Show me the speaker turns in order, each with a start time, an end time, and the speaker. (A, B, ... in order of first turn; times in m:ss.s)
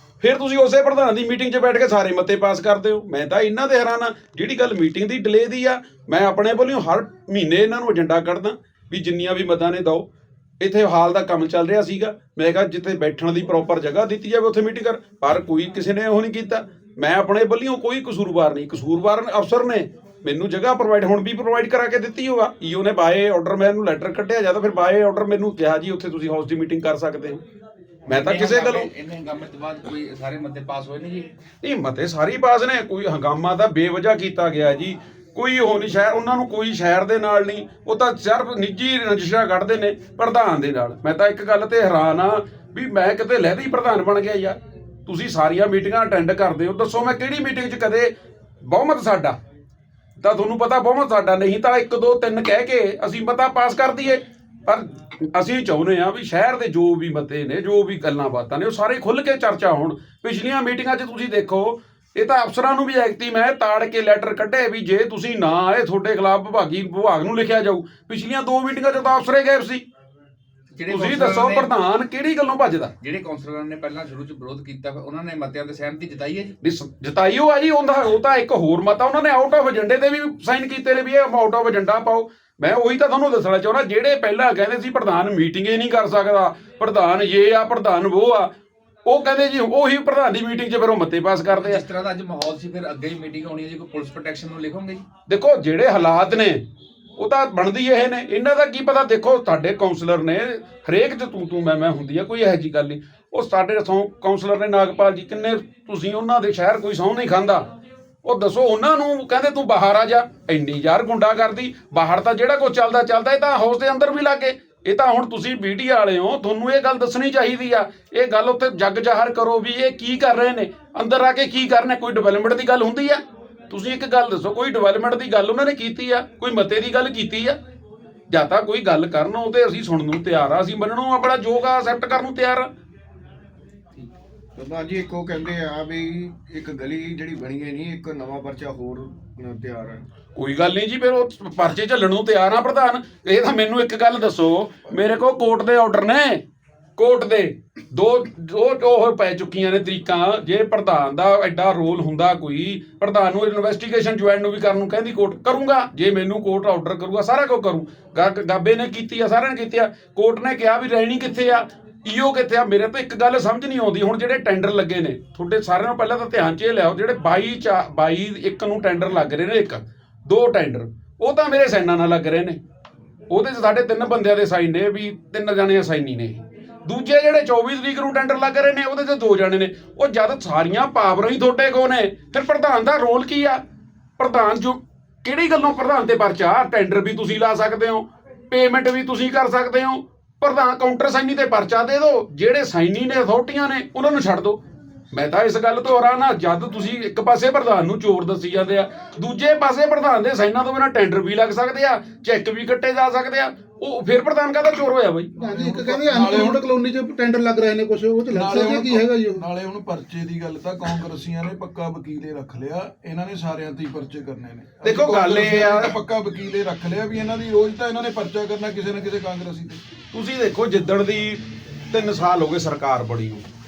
0:00.2-0:10.1 A
0:10.6-0:27.4 A
0:28.1-0:28.9 A
0:28.1-0:31.3 B
0:31.6-0:48.1 A
0:48.6-0:49.4 A
0:50.2-1:09.8 A
1:10.7-1:11.7 B
1:10.9-1:12.9 A
1:13.0-1:16.5 B
1:16.6-1:28.5 A
1:29.0-1:31.8 A
1:31.5-1:35.0 B
1:35.3-1:36.6 A
1:37.2-1:47.7 A
1:48.2-2:07.6 A
2:08.3-2:12.7 A
2:14.6-2:20.0 C
2:20.4-2:26.4 A
2:27.0-2:52.6 A
2:53.3-3:03.6 A
3:04.2-3:14.6 A
3:15.1-3:25.3 A
3:25.4-3:29.4 D
3:25.4-3:26.6 E
3:28.3-3:39.8 E
3:34.8-3:35.9 A
3:40.1-3:43.4 A